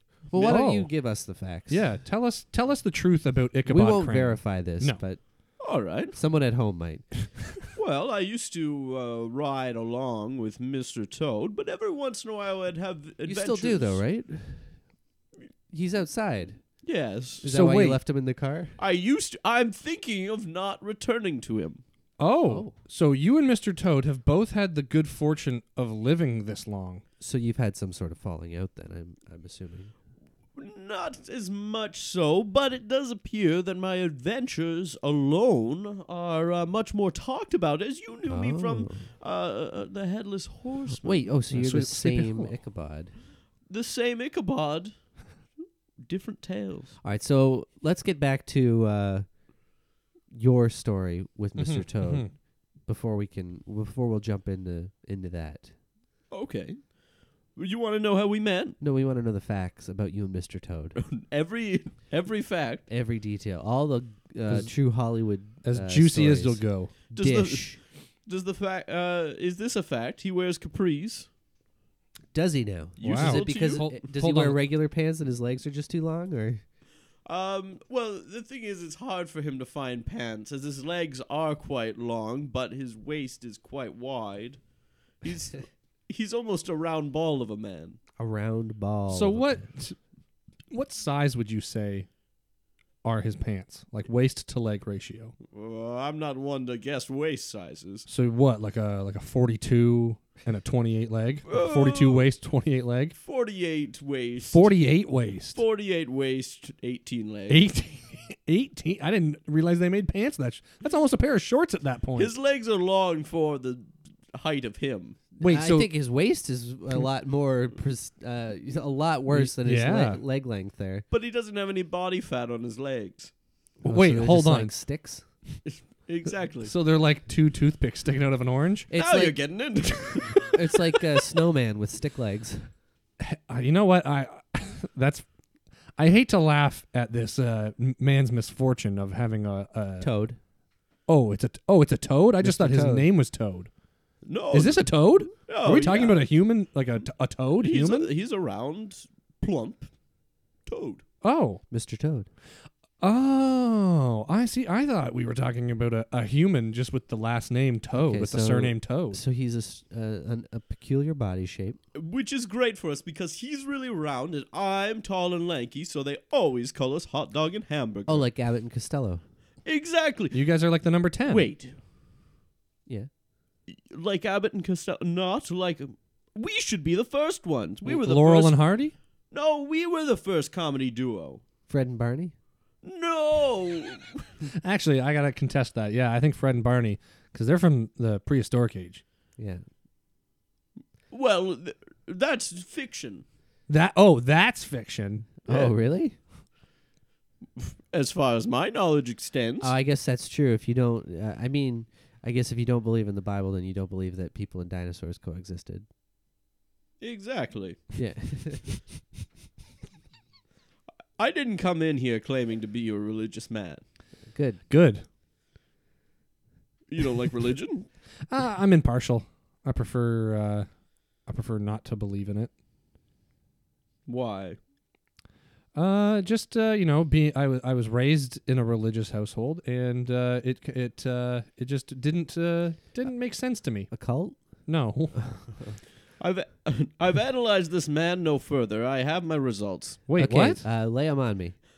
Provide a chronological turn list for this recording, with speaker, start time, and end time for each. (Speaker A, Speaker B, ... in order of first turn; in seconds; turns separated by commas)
Speaker A: 0.3-1.9, Speaker B: 0.3-0.9, Speaker B: 1.7-5.0, Speaker A: 3.7-5.6, Speaker C: 5.6-6.2, Speaker A: 6.1-7.2, Speaker C: 7.7-14.0, Speaker A: 13.2-14.8, Speaker A: 15.7-16.7, Speaker C: 16.8-17.4, Speaker A: 17.4-18.8, Speaker B: 17.4-18.0, Speaker C: 18.8-21.8, Speaker B: 22.2-27.0, Speaker A: 22.5-22.8, Speaker A: 27.2-29.9, Speaker C: 30.6-41.3, Speaker A: 38.3-39.1, Speaker A: 41.0-43.1, Speaker B: 41.5-42.6, Speaker C: 43.7-45.1, Speaker C: 46.0-47.0, Speaker A: 47.0-49.4, Speaker A: 50.3-55.7, Speaker B: 51.6-52.3, Speaker C: 56.3-57.0, Speaker C: 57.5-58.8, Speaker A: 58.8-61.0, Speaker C: 61.0-62.9, Speaker A: 62.9-67.8, Speaker B: 64.5-64.7, Speaker B: 65.6-66.9, Speaker C: 67.1-71.3, Speaker A: 72.3-76.6, Speaker C: 73.0-73.9, Speaker B: 73.0-74.6, Speaker C: 77.3-84.6, Speaker C: 85.2-88.0, Speaker A: 88.2-89.6, Speaker B: 89.1-90.0, Speaker B: 90.7-92.1, Speaker B: 93.0-95.3, Speaker C: 95.5-98.1, Speaker B: 98.1-103.2, Speaker C: 101.5-102.3, Speaker C: 103.2-104.7, Speaker B: 104.5-105.6, Speaker C: 105.5-107.6, Speaker B: 107.5-112.3, Speaker C: 112.2-115.3, Speaker B: 115.4-115.9, Speaker A: 115.4-121.0, Speaker B: 119.3-120.2, Speaker C: 121.1-123.3, Speaker A: 123.8-125.2, Speaker B: 123.8-124.7, Speaker C: 125.7-126.7, Speaker B: 126.6-128.9, Speaker A: 128.9-129.4, Speaker C: 128.9-131.1, Speaker A: 130.5-132.7, Speaker B: 133.2-135.3, Speaker B: 136.0-140.1, Speaker A: 140.0-140.4, Speaker B: 141.1-143.7, Speaker A: 142.4-143.1, Speaker C: 144.2-146.3, Speaker B: 144.5-148.1, Speaker C: 147.6-149.9, Speaker C: 150.7-151.0, Speaker B: 151.2-151.6, Speaker A: 151.7-152.3, Speaker B: 153.0-159.2, Speaker A: 158.0-161.8, Speaker C: 161.9-168.3, Speaker A: 168.1-169.2, Speaker C: 169.7-170.4, Speaker B: 170.3-171.5, Speaker C: 171.3-171.8, Speaker C: 173.7-178.8, Speaker B: 177.8-178.9, Speaker C: 179.3-181.4, Speaker A: 181.7-182.3, Speaker C: 182.8-184.3, Speaker B: 184.6-189.0, Speaker A: 189.4-189.6, Speaker C: 191.1-193.2, Speaker B: 193.7-195.3, Speaker A: 195.4-196.2, Speaker C: 195.5-195.7, Speaker C: 197.6-199.7, Speaker A: 199.6-205.9, Speaker C: 207.0-208.0, Speaker A: 208.0-208.7, Speaker C: 211.2-213.8, Speaker A: 214.3-214.6, Speaker B: 214.7-215.0, Speaker C: 216.9-217.9, Speaker B: 218.3-222.5, Speaker C: 224.1-224.6, Speaker B: 225.7-234.0, Speaker A: 233.9-234.4, Speaker B: 234.7-235.6, Speaker A: 235.2-235.8, Speaker C: 236.2-240.0, Speaker B: 240.1-240.6, Speaker A: 240.2-241.6